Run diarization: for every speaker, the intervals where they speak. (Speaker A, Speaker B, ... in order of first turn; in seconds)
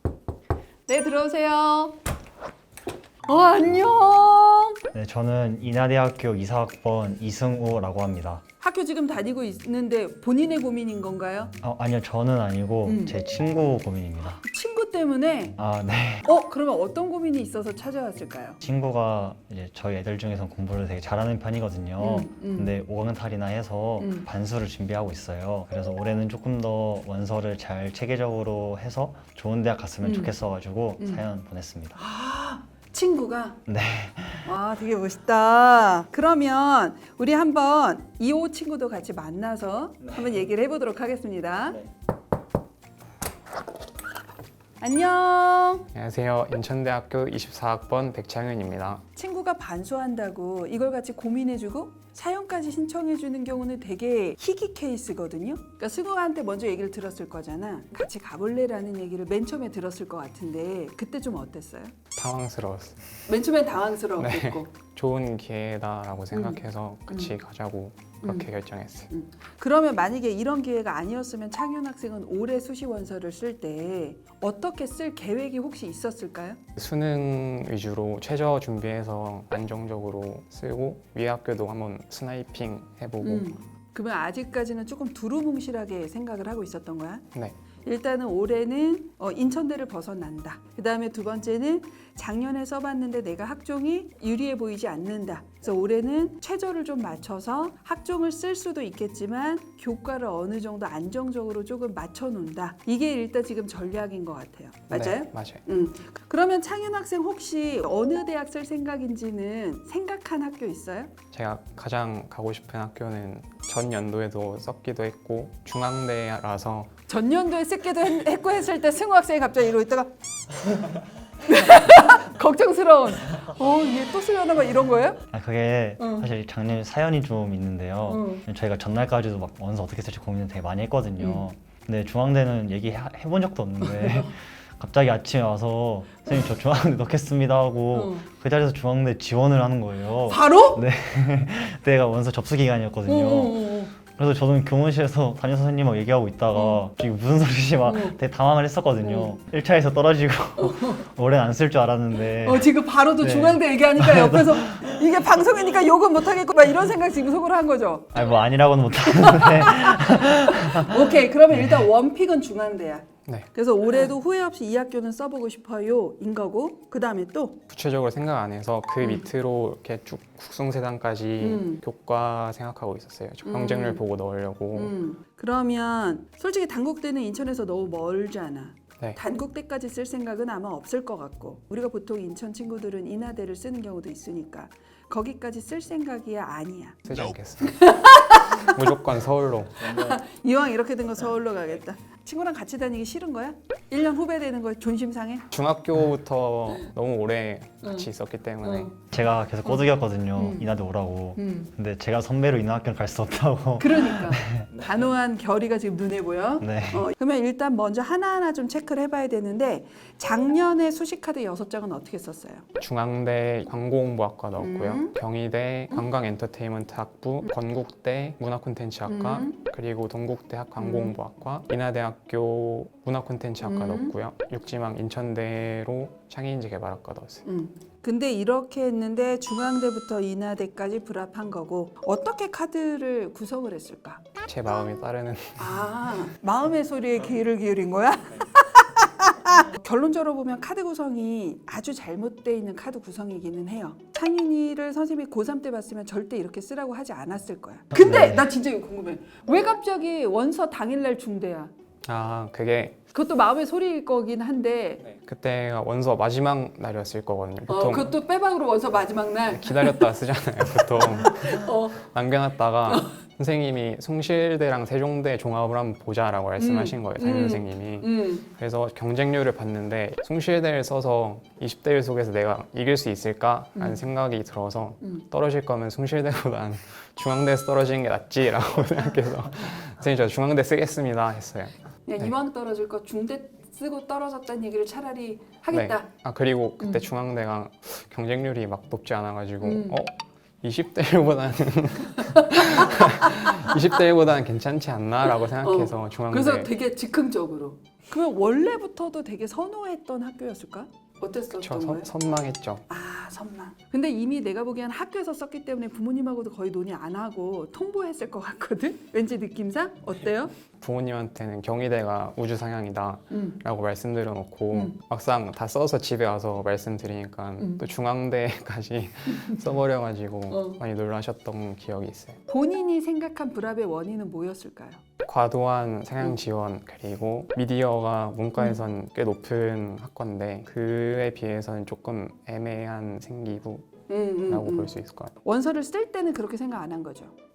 Speaker A: 0.9-2.0, 3.2-4.8, 8.6-11.5, 12.8-13.2, 14.3-15.6, 16.2-18.6, 22.0-22.7, 24.0-24.3, 30.0-30.3, 31.0-31.2, 31.9-33.6, 34.4-41.8, 44.8-45.9, 49.1-61.9, 63.3-64.7, 66.3-67.3, 68.2-68.5, 69.1-76.6, 83.2-87.2, 87.8-111.1, 117.1-120.1, 121.4-125.2, 126.0-126.2, 128.1-128.4, 131.2-131.5, 133.8-134.3, 137.9-138.3, 140.2-140.8, 143.1-143.9, 146.5-146.8, 147.8-148.2, 149.0-149.4, 150.6-151.0, 152.2-158.3, 159.1-167.6, 171.4-171.8, 173.4-174.0, 174.7-187.1, 187.6-188.8, 189.8-195.5, 198.6-198.9, 200.3-200.7, 201.3-201.7, 203.8-212.7, 214.6-215.2, 219.1-219.6, 220.8-221.2, 223.6-224.1, 227.4-234.2, 235.6-251.7, 253.1-255.0, 257.7-260.1, 261.0-262.0, 266.6-268.5, 273.8-274.0, 282.1-286.1, 286.8-287.0, 289.6-290.0, 292.2-293.7, 295.6-302.1, 302.9-310.5, 313.3-313.6, 320.5-320.8, 322.5-325.0, 334.1-334.9, 335.4-337.3
Speaker B: 4.9-8.4, 11.6-14.4, 15.6-16.2, 18.6-32.0, 33.6-34.5, 125.3-155.0, 158.1-161.9, 199.1-204.7, 206.6-207.1, 247.9-248.5
Speaker C: 45.9-49.0, 62.1-63.0, 64.2-69.1, 76.8-83.5, 104.9-105.6, 111.3-116.9, 167.7-174.9, 187.0-187.8, 188.6-190.2, 195.5-198.9, 212.8-227.4, 234.4-235.8, 252.0-253.0, 255.0-258.1, 259.5-282.3, 285.7-296.7, 301.5-302.8, 310.8-322.4, 325.2-333.9, 334.4-335.3